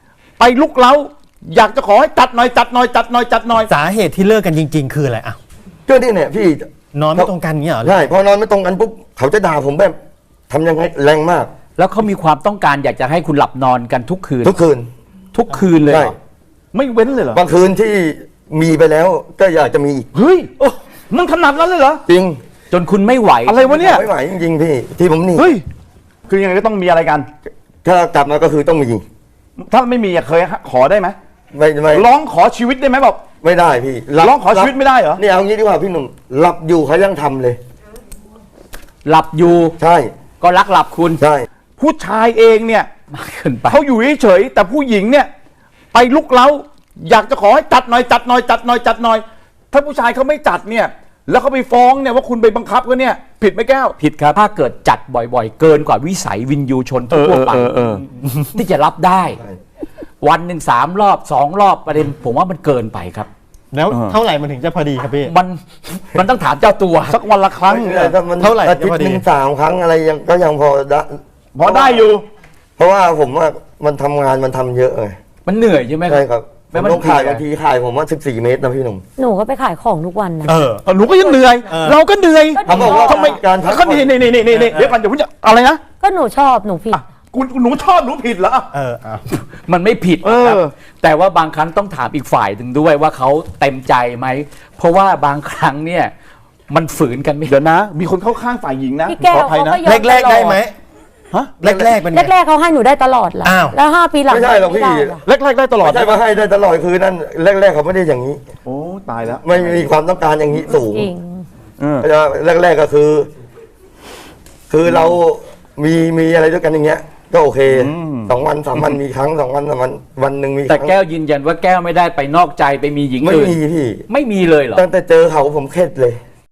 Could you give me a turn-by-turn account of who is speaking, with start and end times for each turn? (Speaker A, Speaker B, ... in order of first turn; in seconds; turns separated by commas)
Speaker A: 0.4-3.7, Speaker B: 3.7-5.4, Speaker C: 5.9-10.0, Speaker B: 6.9-7.9, Speaker C: 10.5-11.5, Speaker D: 11.8-14.6, Speaker C: 14.4-14.9, Speaker D: 15.3-16.1, Speaker C: 15.9-16.1, Speaker A: 16.7-17.4, Speaker C: 17.3-20.1, Speaker A: 20.1-22.0, Speaker C: 22.1-22.4, Speaker D: 22.7-23.6, Speaker A: 23.5-24.1, Speaker C: 23.6-25.5, Speaker A: 25.4-25.6, Speaker A: 26.3-27.3, Speaker C: 27.8-29.0, Speaker A: 29.6-31.2, Speaker C: 31.5-32.1, Speaker A: 31.9-33.2, Speaker C: 33.4-37.6, Speaker A: 34.2-35.2, Speaker D: 39.0-39.8, Speaker C: 39.8-40.1, Speaker D: 40.4-41.2, Speaker C: 41.2-41.5, Speaker A: 41.8-42.9, Speaker D: 43.1-43.8, Speaker A: 43.7-45.3, Speaker A: 45.9-54.4, Speaker D: 54.3-57.7, Speaker A: 57.1-58.1, Speaker D: 58.5-59.4, Speaker D: 60.2-63.3, Speaker B: 63.7-65.2, Speaker A: 63.9-64.2, Speaker D: 65.2-67.2, Speaker A: 67.1-68.2, Speaker C: 67.7-72.1, Speaker B: 68.4-69.1, Speaker A: 71.5-72.2, Speaker C: 72.8-75.2, Speaker D: 75.5-77.4, Speaker C: 76.1-79.0, Speaker E: 79.2-81.3, Speaker A: 80.8-85.8, Speaker E: 82.5-83.4, Speaker C: 82.7-84.2, Speaker E: 86.0-87.0, Speaker A: 86.9-88.7, Speaker B: 88.8-89.2, Speaker D: 89.3-96.1, Speaker A: 90.2-90.7, Speaker D: 96.7-97.5, Speaker A: 97.5-99.8, Speaker E: 99.1-100.7, Speaker B: 99.9-100.6, Speaker C: 101.6-102.0, Speaker E: 101.6-105.2, Speaker B: 101.7-102.3, Speaker C: 104.3-105.2, Speaker A: 105.2-106.2, Speaker C: 105.8-108.4, Speaker A: 108.7-109.8, Speaker C: 109.4-111.1, Speaker E: 110.8-111.5, Speaker A: 111.8-112.0, Speaker C: 112.0-113.3, Speaker C: 114.7-121.0, Speaker A: 114.9-115.1, Speaker A: 117.7-118.3, Speaker D: 120.7-123.6, Speaker C: 123.2-124.1, Speaker D: 124.1-124.9, Speaker C: 124.7-126.2